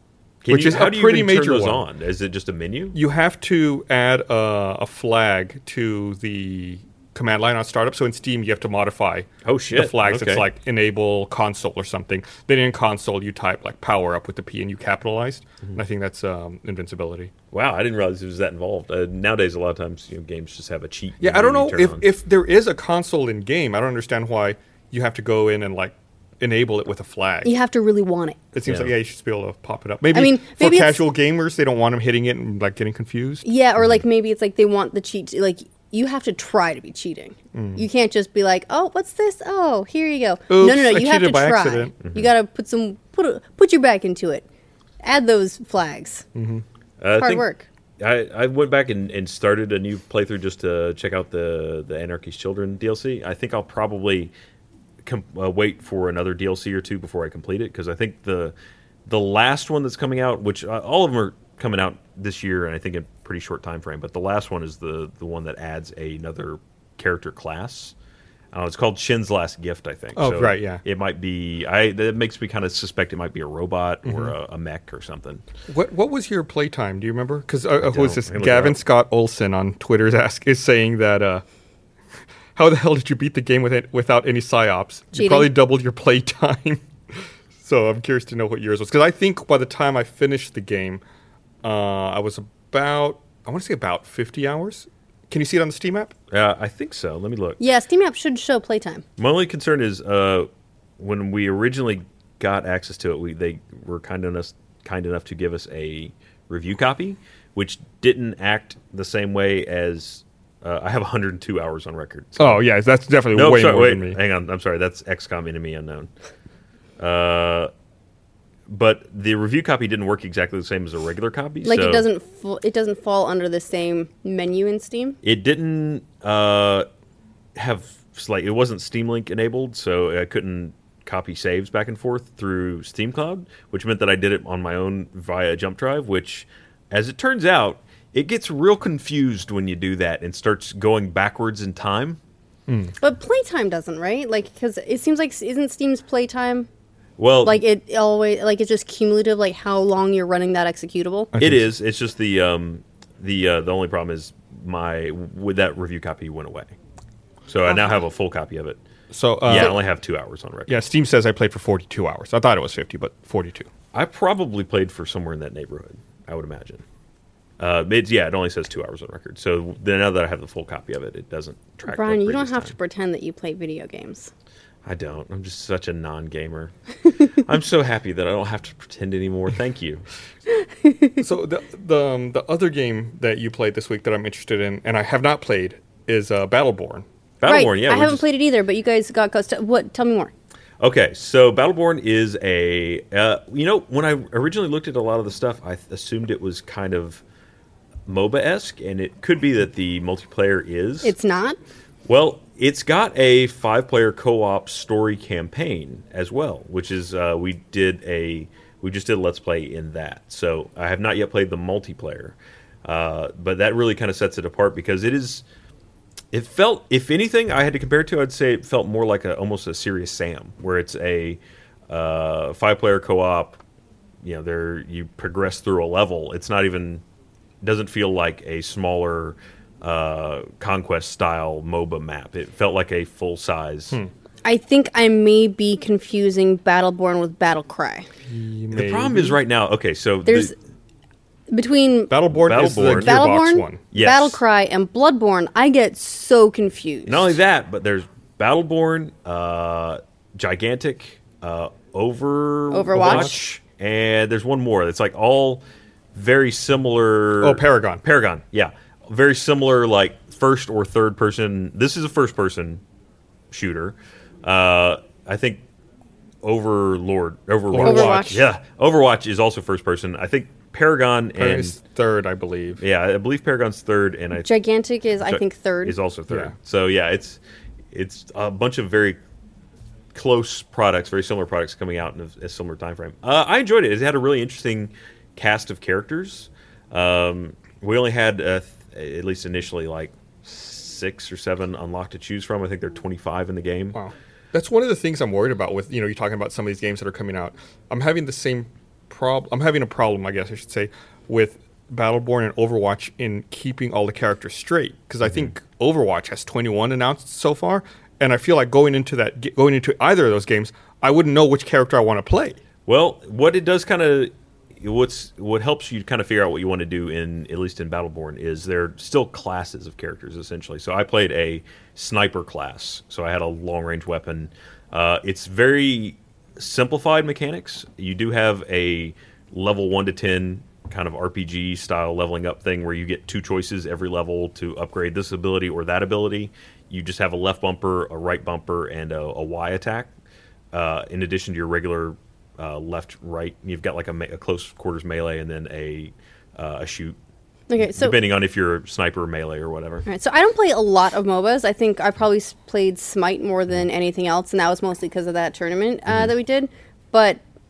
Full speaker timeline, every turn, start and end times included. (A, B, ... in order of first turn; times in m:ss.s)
0:00.4-0:03.0 A
0:00.5-0:01.8 B
0:02.9-0:17.3 B
0:09.4-0:10.5 A
0:17.5-0:22.0 A
0:21.2-0:27.5 B
0:27.4-0:28.4 C
0:28.5-0:33.5 B
0:28.6-0:28.9 A
0:30.1-0:31.0 C
0:33.4-0:44.4 C
0:37.5-0:37.8 B
0:40.5-0:41.9 B
0:45.0-0:46.2 C
0:46.4-0:46.6 B
0:47.0-0:47.5 A
0:47.1-0:47.7 C
0:48.0-0:54.3 A
0:55.0-0:58.5 A
0:59.1-1:07.9 A
1:08.5-1:15.4 A
1:10.2-1:10.8 B
1:14.0-1:14.3 B
1:15.7-1:21.4 B
1:17.8-1:18.8 A
1:22.6-1:31.0 B
1:25.1-1:25.5 C
1:31.6-1:36.1 B
1:36.3-1:37.6 A
1:37.6-1:39.0 C
1:39.2-1:52.6 A
1:52.4-1:54.2 B
1:53.3-1:56.1 A
1:57.0-1:57.7 A
1:58.7-2:02.1 A
2:01.6-2:05.2 C
2:05.2-2:06.9 A
2:07.6-2:22.2 A
2:22.7-2:23.0 B
2:23.0-2:26.7 C
2:27.2-2:27.6 A
2:27.4-2:31.3 C
2:31.3-2:31.7 B
2:31.4-2:36.7 A
2:37.5-2:38.8 A
2:37.7-2:38.0 B
2:39.1-2:39.8 B
2:39.4-2:40.7 A
2:40.7-2:43.7 B
2:43.9-2:46.8 A
2:47.6-2:52.7 A
2:51.9-2:54.3 C
2:54.8-2:56.7 A
2:57.2-3:00.0 A
3:00.6-3:01.2 C
3:01.2-3:07.1 B
3:07.4-3:08.2 A
3:07.5-3:10.3 C
3:10.8-3:17.2 A
3:18.1-3:21.1 A
3:21.0-3:21.6 C
3:22.1-3:35.4 A
3:36.3-3:43.6 A
3:44.2-3:47.0 A
3:47.6-3:54.0 A
3:54.4-3:58.1 C
3:58.2-3:59.4 B
3:58.7-4:00.5 A
4:00.3-4:00.5 C
4:01.5-4:02.2 C
4:02.1-4:03.8 B
4:02.3-4:03.2 A
4:02.9-4:07.3 C
4:03.9-4:04.4 A
4:07.1-4:15.6 A
4:12.7-4:13.5 C
4:13.0-4:13.3 B
4:16.1-4:22.8 A
4:17.4-4:18.0 B
4:23.5-4:25.6 A
4:26.4-4:31.8 A
4:27.7-4:28.4 B
4:27.8-4:28.4 C
4:31.4-4:32.8 B
4:32.8-4:34.5 A
4:34.4-4:36.0 C
4:35.2-4:37.4 A
4:37.9-4:39.2 A
4:40.1-4:54.0 A
4:53.9-5:12.6 B
5:12.9-5:40.1 A
5:40.7-5:47.2 A
5:47.7-5:48.2 C
5:47.9-5:50.0 A
5:50.1-5:57.4 C